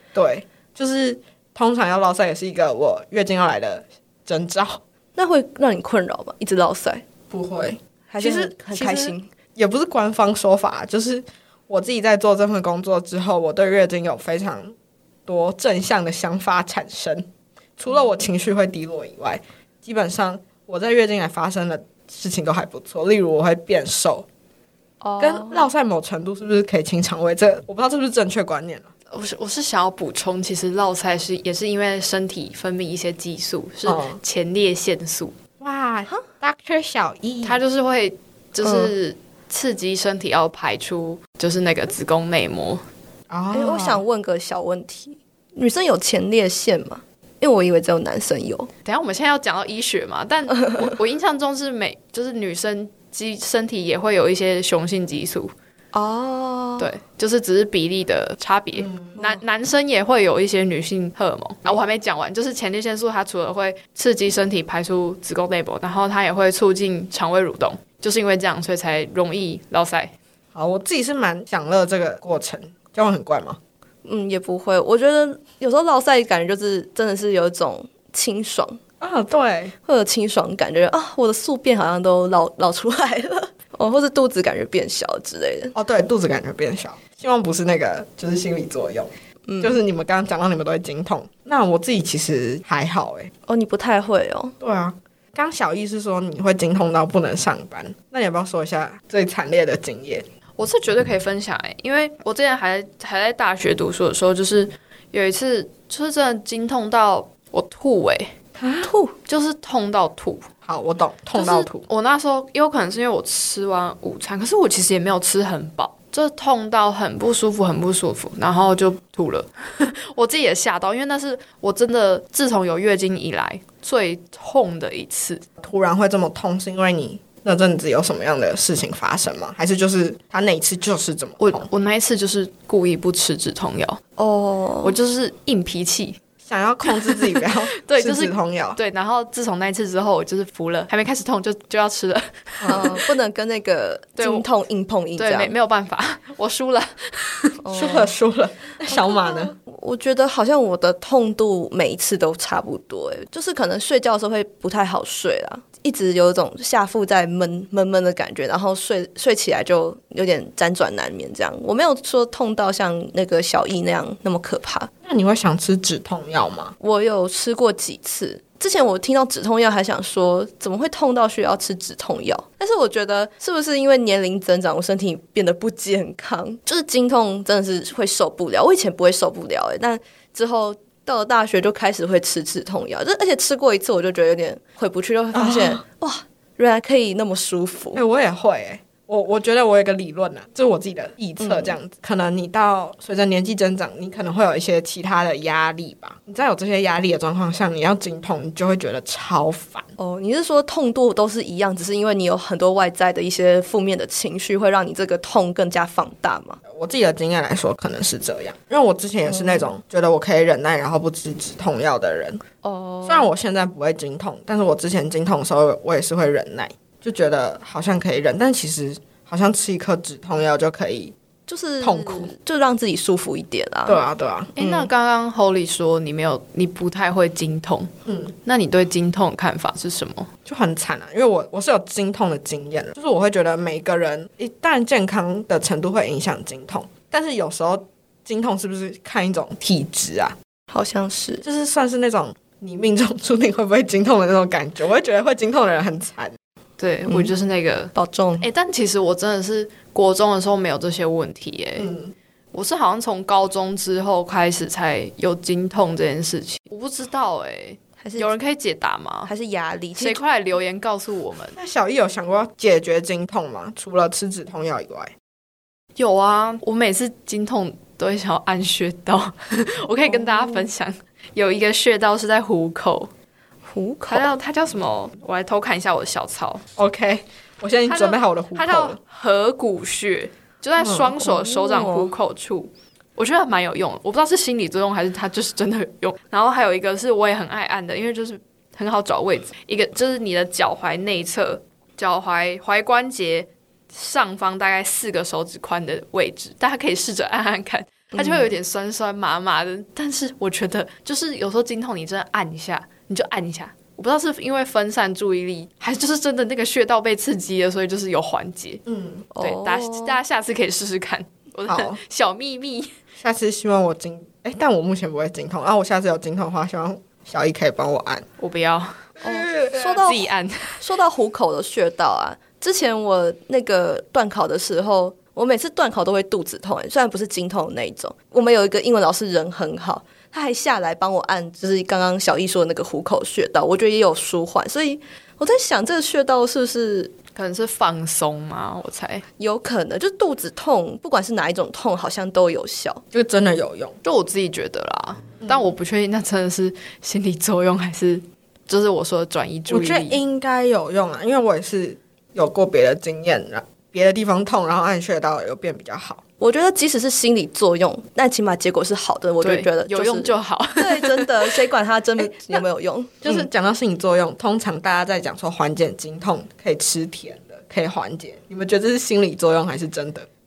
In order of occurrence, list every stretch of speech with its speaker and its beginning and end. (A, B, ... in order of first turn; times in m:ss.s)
0:00.1-0:04.8 A
0:05.1-0:07.0 B
0:07.3-0:14.7 A
0:08.1-0:09.3 B
0:15.3-0:17.2 A
0:17.8-0:24.2 A
0:25.0-0:25.7 B
0:25.2-0:28.9 A
0:29.1-0:35.3 C
0:33.8-0:34.2 A
0:35.6-0:37.6 A
0:37.4-0:42.8 C
0:38.6-0:38.9 B
0:43.3-0:44.0 A
0:43.5-0:48.7 B
0:48.8-0:55.5 C
0:55.9-0:56.9 B
0:56.8-1:10.1 C
0:58.7-0:59.2 A
0:59.2-0:59.4 B
1:10.5-1:13.6 A
1:14.0-1:18.8 B
1:19.0-1:19.7 A
1:19.8-1:25.7 B
1:25.7-1:33.3 A
1:29.5-1:29.8 B
1:33.5-1:34.5 B
1:34.6-1:40.2 A
1:40.6-1:48.3 C
1:48.6-1:48.9 A
1:48.8-1:49.1 B
1:49.2-1:50.5 C
1:50.6-1:51.8 A
1:51.3-2:05.4 C
2:05.6-2:11.7 A
2:11.4-2:14.0 C
2:14.2-2:15.0 B
2:14.8-2:16.2 C
2:16.4-2:18.8 A
2:16.8-2:23.0 C
2:22.6-2:22.9 A
2:22.7-2:25.6 B
2:24.2-2:24.5 C
2:25.2-2:27.6 C
2:27.6-2:28.1 B
2:27.7-2:29.5 A
2:28.9-2:44.9 B
2:45.0-2:46.7 A
2:46.8-3:08.0 B
3:05.3-3:05.8 A
3:07.9-3:19.9 A
3:11.4-3:11.8 B
3:20.0-3:26.6 B
3:26.7-3:32.4 A
3:29.2-3:29.7 B
3:32.6-3:33.3 B
3:33.0-3:41.1 A
3:41.5-3:44.0 B
3:41.8-3:42.3 A
3:43.9-3:44.5 A
3:44.6-3:47.9 C
3:44.6-3:44.9 B
3:48.4-3:50.3 C
3:50.4-4:00.4 A
4:00.7-4:01.4 B
4:01.4-4:06.3 A
4:06.8-4:11.9 C
4:07.9-4:08.5 B
4:11.8-4:12.1 A
4:12.5-4:19.3 C
4:18.0-4:18.3 B
4:19.2-4:20.2 B
4:20.0-4:21.6 C
4:21.6-4:25.1 A
4:26.0-4:33.1 C
4:30.1-4:30.7 B
4:33.7-4:34.3 B
4:34.1-4:36.6 C
4:36.8-4:39.0 A
4:37.9-5:08.8 C
4:40.8-4:41.1 A
4:41.2-4:42.1 B
4:58.1-4:58.5 B
5:08.8-5:09.3 A
5:09.3-5:10.2 B
5:09.4-5:12.9 C
5:11.6-5:12.0 A
5:13.2-5:18.2 A
5:18.4-5:19.1 C
5:19.2-5:19.9 A
5:19.2-5:37.1 B
5:19.7-5:20.8 C
5:37.3-5:39.2 C
5:39.4-5:43.0 B
5:43.1-5:44.0 A
5:44.0-5:50.2 C
5:45.4-5:45.7 A
5:49.7-5:56.2 A
5:56.4-6:03.5 B
5:59.4-6:01.6 C
6:02.2-6:02.6 A
6:03.2-6:10.2 A